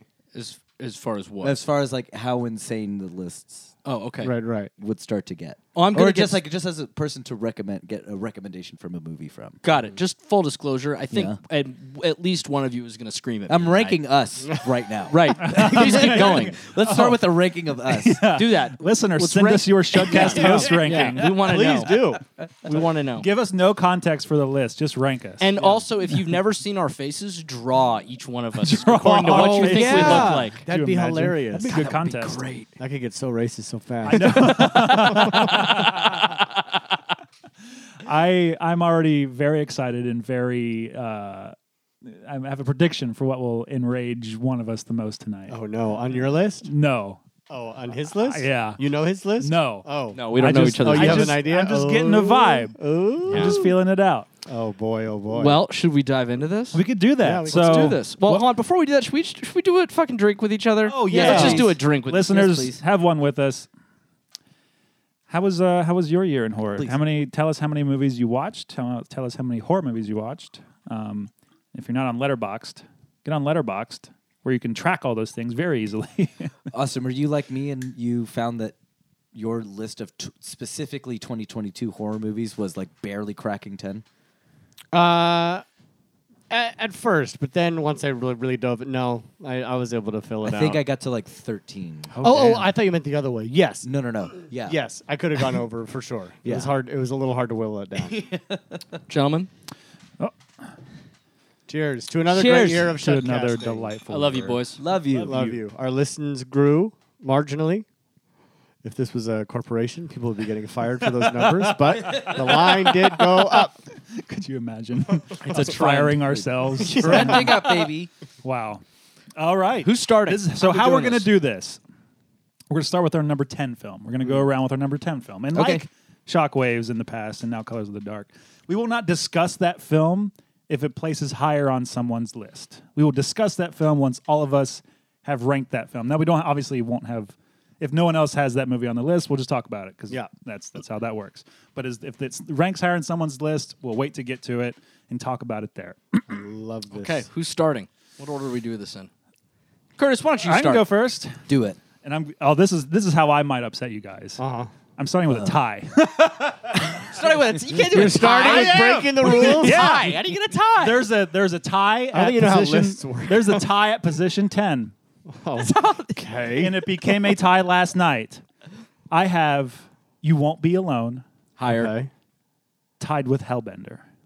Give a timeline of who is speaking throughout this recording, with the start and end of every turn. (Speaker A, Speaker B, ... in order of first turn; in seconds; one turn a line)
Speaker A: 0.3-1.6
Speaker B: 1.4-3.7
Speaker A: 3.8-4.3
Speaker C: 4.2-4.7
Speaker B: 4.8-9.6
Speaker A: 5.7-6.4
Speaker A: 9.6-14.0
Speaker B: 11.1-11.4
Speaker B: 13.5-18.2
Speaker A: 15.1-16.6
Speaker D: 15.4-17.3
Speaker D: 17.9-21.6
Speaker A: 18.3-23.3
Speaker C: 20.1-22.2
Speaker D: 23.2-25.5
Speaker A: 25.4-30.6
Speaker C: 25.6-25.8
Speaker D: 28.6-32.4
Speaker C: 29.1-31.9
Speaker A: 31.6-32.7
Speaker C: 32.8-35.8
Speaker D: 34.0-36.3
Speaker A: 35.3-36.4
Speaker D: 38.0-45.6
Speaker C: 45.5-46.7
Speaker D: 46.6-47.2
Speaker C: 47.5-53.8
Speaker D: 48.1-48.8
Speaker D: 49.4-54.3
Speaker A: 50.1-51.4
Speaker A: 53.3-53.6
Speaker C: 54.5-55.6
Speaker A: 55.3-56.8
Speaker D: 56.7-58.5
Speaker C: 57.2-58.0
Speaker A: 57.5-62.8
Speaker D: 60.9-63.7
Speaker B: 61.1-61.6
Speaker C: 61.1-61.7
Speaker D: 65.3-76.5
Speaker B: 76.7-78.7
Speaker B: 79.3-84.0
Speaker C: 84.9-85.6
Speaker C: 86.5-90.8
Speaker B: 90.4-92.1
Speaker D: 92.1-92.7
Speaker C: 92.2-98.2
Speaker B: 93.8-94.8
Speaker B: 96.4-96.7
Speaker B: 98.0-99.0
Speaker A: 99.1-99.5
Speaker C: 101.7-103.9
Speaker D: 102.3-105.6
Speaker B: 102.4-102.9
Speaker A: 104.1-104.8
Speaker B: 104.8-105.4
Speaker C: 105.2-107.8
Speaker C: 108.8-113.8
Speaker D: 111.4-117.7
Speaker A: 115.4-116.3
Speaker C: 115.5-117.8
Speaker B: 116.8-118.1
Speaker D: 118.4-118.8
Speaker D: 119.3-121.8
Speaker A: 119.8-121.3
Speaker D: 122.7-146.4
Speaker B: 125.5-125.8
Speaker C: 146.3-147.2
Speaker A: 146.9-149.1
Speaker A: 150.0-150.9
Speaker D: 150.4-151.4
Speaker B: 151.5-151.8
Speaker D: 152.0-154.4
Speaker C: 154.4-154.7
Speaker D: 155.0-157.1
Speaker A: 157.0-161.1
Speaker C: 157.7-160.0
Speaker D: 157.9-164.9
Speaker C: 162.1-163.7
Speaker C: 165.3-167.0
Speaker A: 165.6-166.2
Speaker D: 166.6-168.4
Speaker D: 169.1-171.2
Speaker A: 171.6-171.9
Speaker C: 171.6-172.1
Speaker D: 173.0-174.0